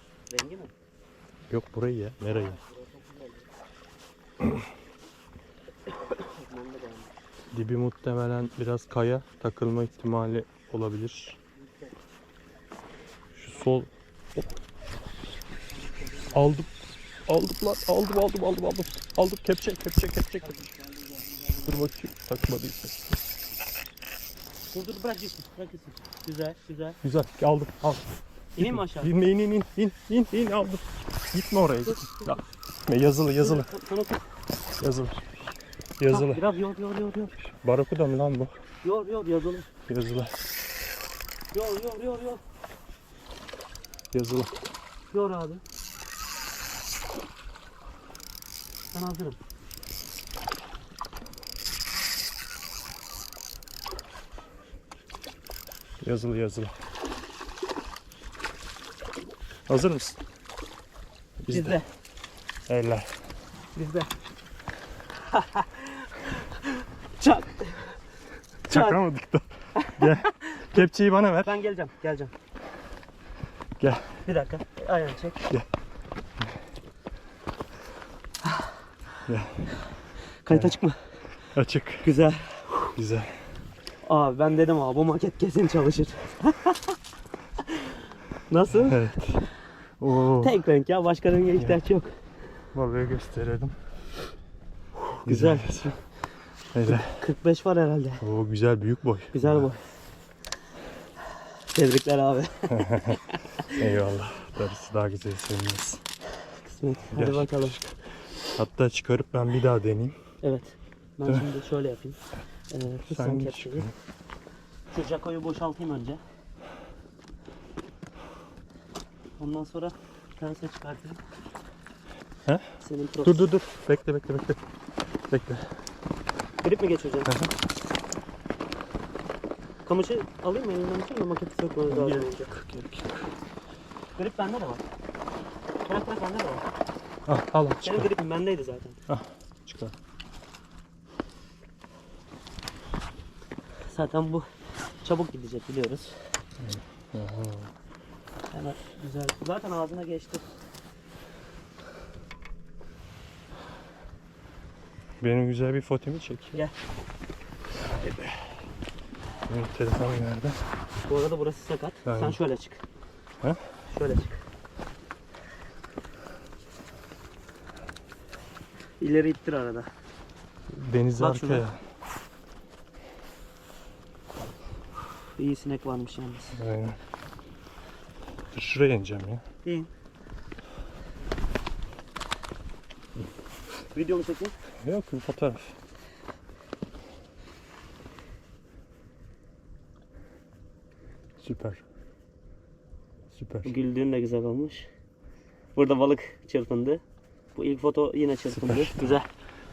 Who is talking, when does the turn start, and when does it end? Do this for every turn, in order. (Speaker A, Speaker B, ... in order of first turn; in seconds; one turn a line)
Speaker A: 0.3-0.7
Speaker B: 1.5-2.6
Speaker A: 2.3-3.5
Speaker A: 6.0-7.1
Speaker B: 7.5-11.4
Speaker B: 13.3-13.9
Speaker A: 15.8-16.4
Speaker B: 16.3-16.7
Speaker B: 17.3-20.7
Speaker A: 20.4-21.8
Speaker B: 21.6-23.0
Speaker A: 24.7-27.0
Speaker B: 27.0-28.0
Speaker B: 28.6-33.7
Speaker A: 28.6-29.1
Speaker A: 33.4-34.2
Speaker B: 34.8-35.2
Speaker B: 36.0-36.4
Speaker A: 36.1-37.3
Speaker B: 37.5-38.6
Speaker A: 38.8-39.7
Speaker B: 39.9-40.5
Speaker A: 41.5-42.4
Speaker B: 44.1-44.5
Speaker A: 45.1-45.6
Speaker A: 48.9-49.4
Speaker B: 56.0-56.8
Speaker B: 59.7-60.2
Speaker B: 61.4-61.8
Speaker A: 61.5-61.9
Speaker B: 62.7-63.2
Speaker A: 63.7-64.1
Speaker A: 65.3-68.0
Speaker A: 68.7-69.0
Speaker B: 68.7-71.5
Speaker A: 69.7-70.8
Speaker A: 71.4-72.3
Speaker B: 73.8-74.2
Speaker A: 74.2-75.5
Speaker B: 79.2-79.8
Speaker A: 80.3-81.2
Speaker B: 80.5-80.8
Speaker B: 81.5-82.1
Speaker A: 82.0-82.9
Speaker B: 82.9-83.5
Speaker A: 84.0-87.0
Speaker A: 87.6-89.0
Speaker B: 88.7-90.6
Speaker A: 90.4-92.2
Speaker B: 92.7-93.8
Speaker B: 95.2-96.0
Speaker A: 95.2-96.1
Speaker B: 96.7-97.2
Speaker A: 96.9-98.2
Speaker B: 98.2-99.6
Speaker A: 99.3-99.9
Speaker A: 101.7-103.8
Speaker B: 102.7-106.0
Speaker A: 106.6-107.9
Speaker B: 107.1-110.2
Speaker A: 110.4-113.9
Speaker B: 113.1-113.9
Speaker A: 114.9-116.2
Speaker A: 119.4-121.2
Speaker B: 122.4-124.6
Speaker A: 122.8-123.5
Speaker B: 125.3-125.7
Speaker A: 126.6-127.3
Speaker B: 127.3-127.5
Speaker A: 129.8-132.5
Speaker B: 131.9-133.2
Speaker A: 134.2-134.8
Speaker A: 135.8-136.6
Speaker B: 137.2-138.1
Speaker A: 137.8-139.0
Speaker B: 139.1-139.9
Speaker A: 143.9-144.4
Speaker A: 145.0-146.2
Speaker B: 146.6-147.7
Speaker A: 148.5-150.4
Speaker B: 155.2-156.6
Speaker B: 158.0-158.3
Speaker B: 159.5-160.6
Speaker A: 161.1-162.8
Speaker B: 162.0-162.4
Speaker A: 163.9-164.4
Speaker A: 169.0-169.9
Speaker B: 170.7-171.8
Speaker A: 171.2-171.7
Speaker A: 175.4-176.6
Speaker B: 176.5-177.0
Speaker B: 178.5-179.4
Speaker A: 179.6-179.9
Speaker A: 183.9-184.5
Speaker B: 184.8-185.7
Speaker B: 191.4-191.8
Speaker B: 193.3-193.7
Speaker A: 193.6-194.9
Speaker A: 195.7-197.0
Speaker A: 197.5-199.3
Speaker B: 198.5-199.2